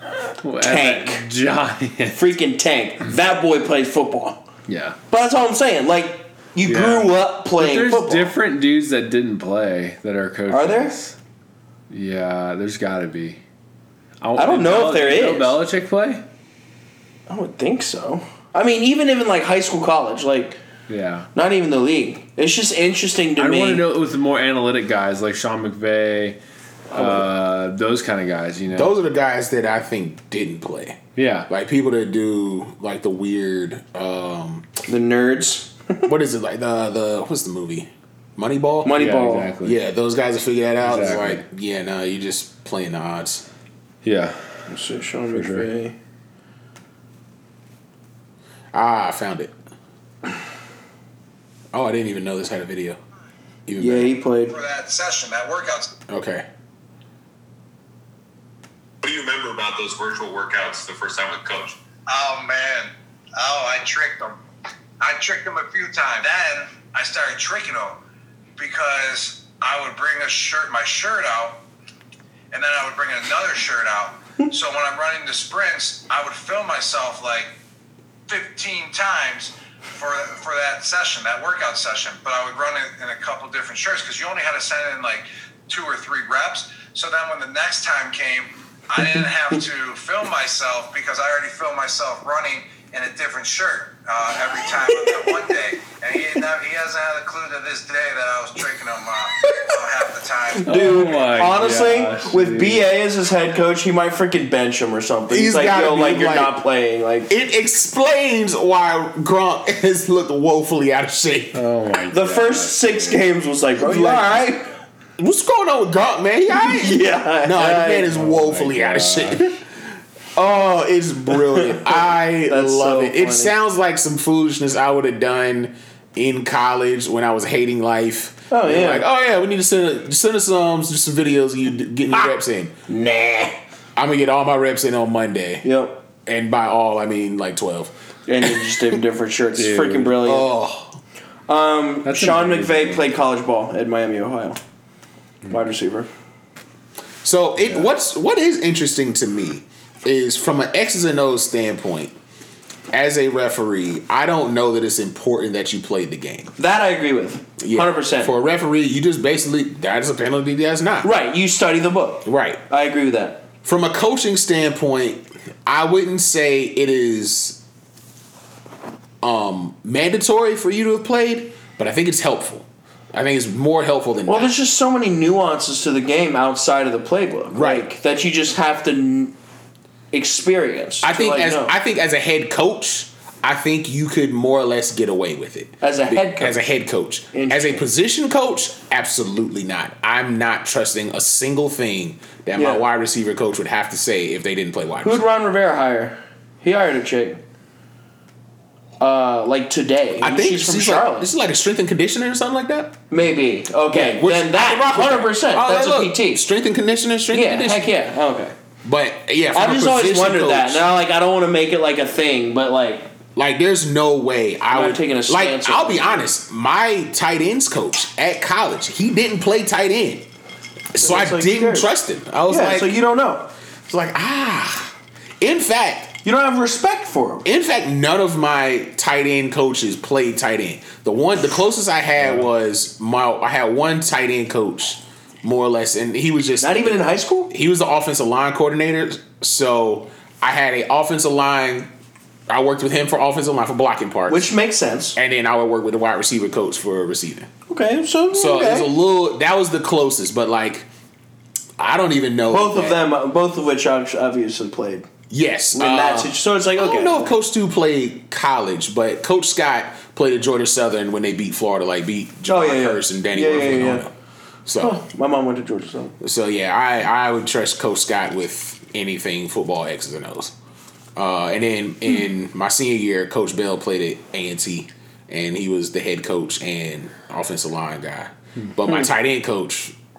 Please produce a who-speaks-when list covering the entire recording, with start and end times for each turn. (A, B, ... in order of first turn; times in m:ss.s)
0:00.4-0:02.2 A
0:00.6-0:01.2 B
0:02.1-0:04.4 B
0:04.7-0:05.0 A
0:05.1-0:08.3 B
0:06.6-0:11.2 A
0:10.5-0:11.0 B
0:11.9-0:13.4 A
0:14.2-0:16.2 A
0:14.4-0:15.5 B
0:17.3-0:20.6 B
0:20.9-0:21.3 A
0:21.3-0:23.8 B
0:23.4-0:26.4 A
0:26.9-0:28.9 A
0:26.9-0:27.2 B
0:28.7-0:34.7 C
0:31.2-0:31.5 A
0:34.8-0:36.1 B
0:36.0-0:39.0 C
0:38.8-0:39.5 B
0:38.9-0:39.8 A
0:39.6-0:43.4 C
0:40.8-0:41.4 A
0:44.0-0:44.4 A
0:44.7-0:45.9 B
0:45.3-0:45.7 A
0:48.7-0:49.5 C
0:51.7-0:53.0 C
0:53.7-0:54.1 C
0:53.8-0:54.6 B
0:54.5-0:55.9 D
0:56.1-0:56.4 C
0:59.0-1:01.8 E
1:02.1-1:04.4 D
1:05.0-1:08.0 D
1:08.6-1:11.6 D
1:12.5-1:17.6 D
1:18.3-1:40.7 D
1:35.0-1:35.4 B
1:40.6-1:47.3 B
1:40.6-1:42.9 A
1:45.3-1:46.5 C
1:47.3-1:51.6 C
1:51.5-1:53.2 A
1:52.1-1:54.7 B
1:53.8-1:54.6 C
1:55.2-1:59.6 C
1:56.5-1:58.1 B
1:58.1-1:59.4 A
2:00.4-2:12.7 C
2:01.3-2:03.5 B
2:08.5-2:09.0 B
2:12.9-2:13.6 B
2:14.0-2:15.6 C
2:15.6-2:16.0 B
2:16.2-2:18.5 C
2:18.3-2:20.5 B
2:19.6-2:20.2 A
2:20.2-2:21.0 C
2:21.5-2:24.6 B
2:22.0-2:23.0 A
2:25.5-2:26.1 B
2:27.2-2:32.1 C
2:32.9-2:36.5 C
2:36.6-2:38.3 B
2:37.6-2:41.1 C
2:41.0-2:43.4 B
2:42.2-2:42.6 C
2:43.6-2:47.6 C
2:49.2-2:54.5 C
2:54.3-2:59.3 B
2:57.5-2:57.9 C
3:00.1-3:01.7 B
3:01.0-3:15.2 C
3:05.8-3:06.6 B
3:07.3-3:07.9 B
3:12.5-3:12.8 B
3:15.0-3:17.4 B
3:19.0-3:21.3 B
3:20.2-3:23.0 C
3:23.1-3:26.4 B
3:23.9-3:27.9 C
3:27.3-3:28.5 B
3:28.8-3:30.8 C
3:29.5-3:33.1 B
3:33.4-3:40.2 C
3:34.7-3:36.3 B
3:40.9-3:42.9 C
3:41.0-3:41.9 B
3:42.5-3:43.5 B
3:43.9-3:46.2 C
3:46.2-3:47.5 B
3:47.4-4:01.9 C
3:52.2-3:52.5 A
3:56.6-3:57.5 B
4:02.5-4:04.5 C
4:04.3-4:05.2 B
4:05.1-4:07.5 C
4:07.7-4:08.9 B
4:08.3-4:10.9 C
4:11.8-4:13.0 C
4:12.5-4:15.1 B
4:15.3-4:24.1 C
4:15.7-4:17.3 B
4:22.4-4:24.1 B
4:24.6-4:25.0 C
4:24.8-4:26.2 B
4:26.2-4:30.5 C
4:31.2-4:39.9 C